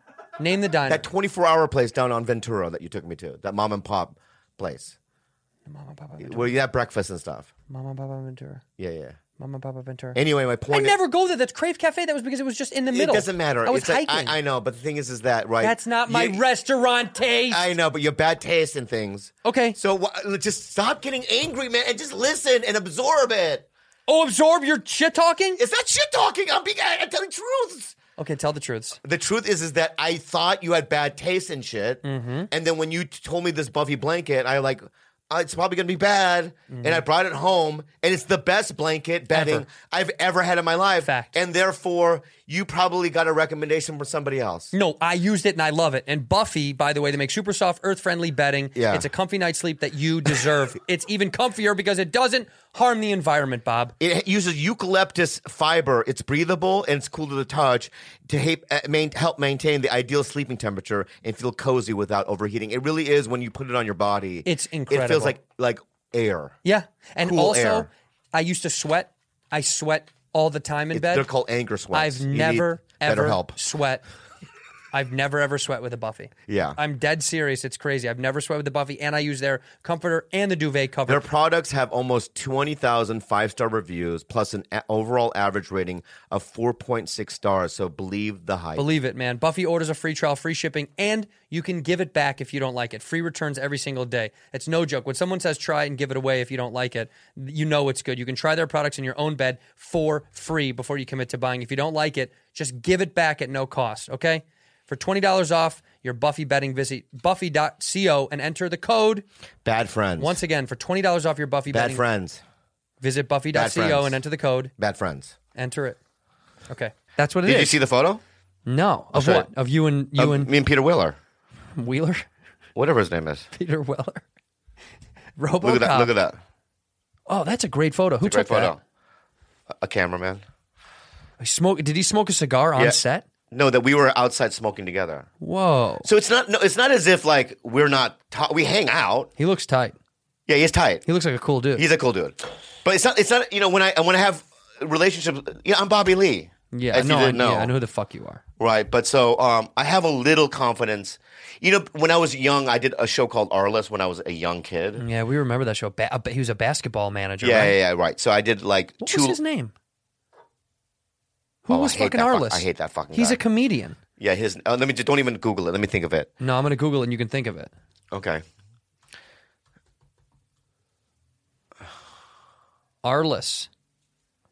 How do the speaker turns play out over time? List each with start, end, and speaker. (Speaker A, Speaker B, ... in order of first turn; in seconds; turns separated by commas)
Speaker A: 0.4-1.1, Speaker B: 0.9-5.0, Speaker A: 5.7-6.5, Speaker B: 6.2-7.5, Speaker A: 7.7-8.6, Speaker B: 8.8-9.2, Speaker A: 9.4-10.2, Speaker B: 10.2-11.0, Speaker A: 10.7-14.4, Speaker B: 12.9-16.4, Speaker A: 15.6-17.7, Speaker B: 17.5-23.7, Speaker A: 19.4-19.8, Speaker A: 24.1-25.6, Speaker B: 25.6-27.9, Speaker A: 28.2-29.0, Speaker B: 29.0-44.7, Speaker A: 32.0-32.5, Speaker A: 36.7-37.0, Speaker A: 39.3-39.7, Speaker A: 41.0-41.4, Speaker A: 44.7-54.0, Speaker B: 48.8-49.1, Speaker B: 54.0-66.6, Speaker A: 64.5-65.4, Speaker A: 66.7-71.3, Speaker B: 67.2-67.9, Speaker B: 70.9-73.6, Speaker A: 71.9-74.0, Speaker A: 74.9-81.2, Speaker B: 76.5-76.8, Speaker B: 81.1-88.9, Speaker A: 88.8-109.2, Speaker B: 109.6-110.4, Speaker A: 110.2-112.0, Speaker B: 111.7-112.4, Speaker A: 113.0-114.7, Speaker B: 113.5-114.2, Speaker B: 114.8-115.3, Speaker A: 115.5-116.0, Speaker A: 116.7-117.8, Speaker B: 117.4-118.2, Speaker A: 118.7-120.5, Speaker B: 119.1-119.5, Speaker B: 120.2-121.2, Speaker A: 121.8-122.2, Speaker B: 122.8-123.5, Speaker A: 123.5-124.2, Speaker A: 125.4-126.2, Speaker B: 125.6-126.4, Speaker A: 127.3-128.8, Speaker B: 128.2-128.8, Speaker B: 129.7-130.4, Speaker A: 131.4-133.2, Speaker B: 133.5-135.3, Speaker A: 135.4-136.1, Speaker B: 136.0-139.3, Speaker A: 139.4-140.0, Speaker B: 140.5-141.0, Speaker A: 141.1-141.8, Speaker B: 141.8-147.7, Speaker A: 146.7-148.4, Speaker B: 148.6-155.0, Speaker A: 155.0-157.8, Speaker B: 157.4-159.4, Speaker A: 159.0-159.7, Speaker A: 161.7-164.0, Speaker B: 161.7-163.4, Speaker B: 164.2-166.3, Speaker A: 166.4-167.7, Speaker B: 168.1-168.4, Speaker A: 173.0-173.7